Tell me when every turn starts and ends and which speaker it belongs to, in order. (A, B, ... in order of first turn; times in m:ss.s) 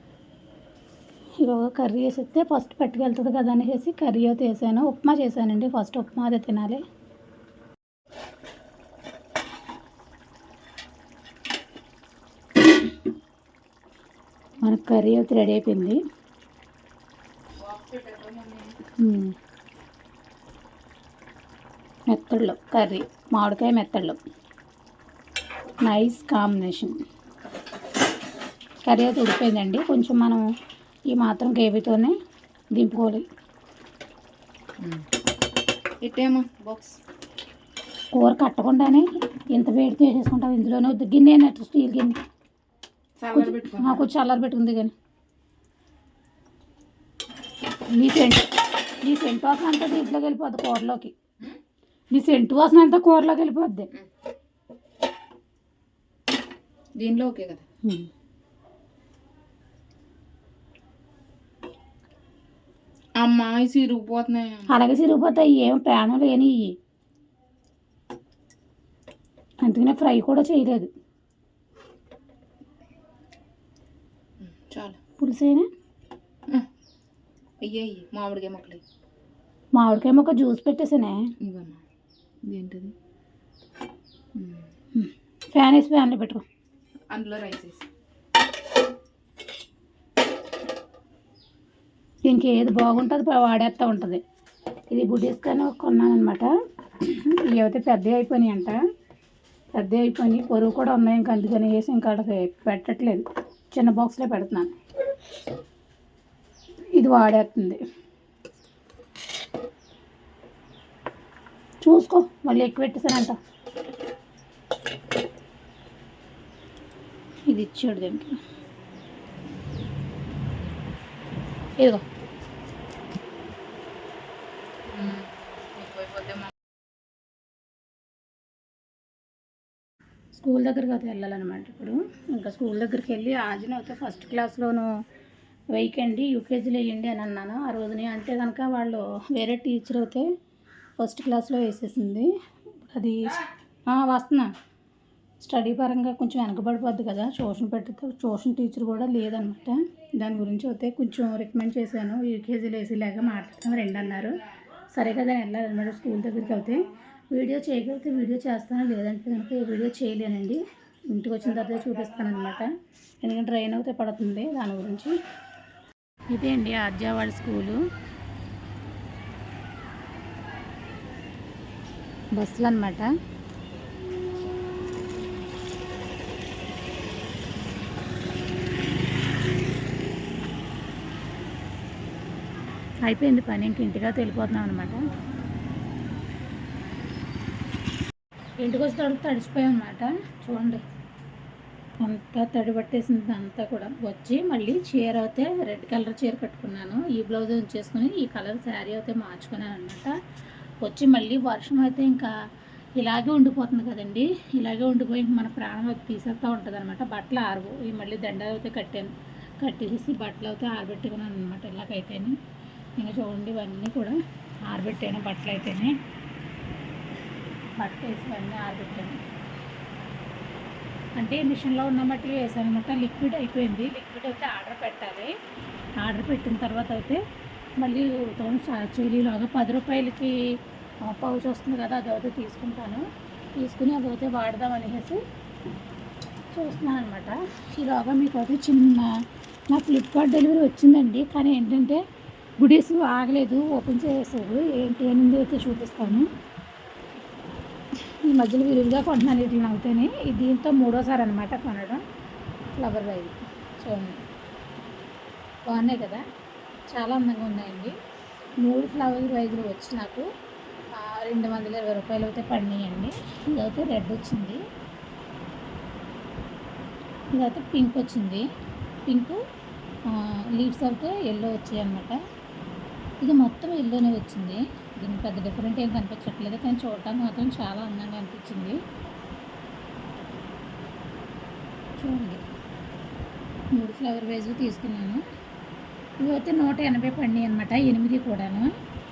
0:01.4-0:06.8 A
0:14.6-0:16.0 A
0:17.6-0:18.8 B
0:19.0-0:19.3 A
0:22.1-0:24.2 A
0:25.9-0:27.0 A
0:28.8-0:30.4 A
0:31.1-0:32.1 A
0:32.8-0:33.2 A
0:34.8-0:35.1 B
0:36.0-0:37.0 B
0:38.1-0:42.2 A
0:43.2-0:44.0 B
0:43.3-0:44.9 A
0:47.9-0:48.5 A
0:49.0-0:51.1 A
0:52.1-0:53.9 A
0:57.0-0:57.6 B
1:03.2-1:04.7 B
1:04.7-1:06.8 A
1:09.6-1:10.9 A
1:14.4-1:15.0 B
1:15.2-1:15.7 A
1:17.6-1:18.8 B
1:19.8-1:21.2 A
1:21.4-1:21.8 B
1:22.5-1:22.9 B
1:24.4-1:24.7 B
1:24.9-1:26.4 A
1:27.1-1:27.8 B
1:32.2-1:34.2 A
1:34.9-1:36.5 A
1:37.0-1:38.8 A
1:39.8-1:44.8 A
1:47.0-1:47.8 A
1:51.8-1:53.4 A
1:57.5-1:58.4 A
2:04.9-2:06.5 B
2:10.3-2:14.9 A
2:15.7-2:20.3 A
2:21.0-2:23.4 A
2:23.9-2:24.5 A
2:25.4-2:34.3 A
2:34.9-2:42.7 A
2:43.2-2:45.1 A
2:46.3-2:47.8 A
2:52.3-2:53.1 A
3:03.0-3:05.0 A
3:08.6-3:10.8 A
3:12.0-3:20.1 A
3:20.8-3:22.3 A
3:23.0-3:32.4 A
3:33.0-3:36.0 A
3:37.8-3:39.2 A
3:41.2-3:45.3 A
3:46.0-3:47.2 A
3:47.8-3:55.2 A
3:56.5-4:02.0 A
4:02.6-4:06.3 A
4:08.0-4:12.0 A
4:12.8-4:14.2 A
4:15.7-4:16.2 A
4:16.9-4:17.9 A
4:18.6-4:20.3 A
4:20.9-4:24.6 A
4:27.3-4:28.5 A
4:29.0-4:29.4 A
4:30.1-4:32.2 A
4:33.2-4:38.8 A
4:42.0-4:42.4 A
4:43.7-4:45.2 A
4:46.2-4:48.7 A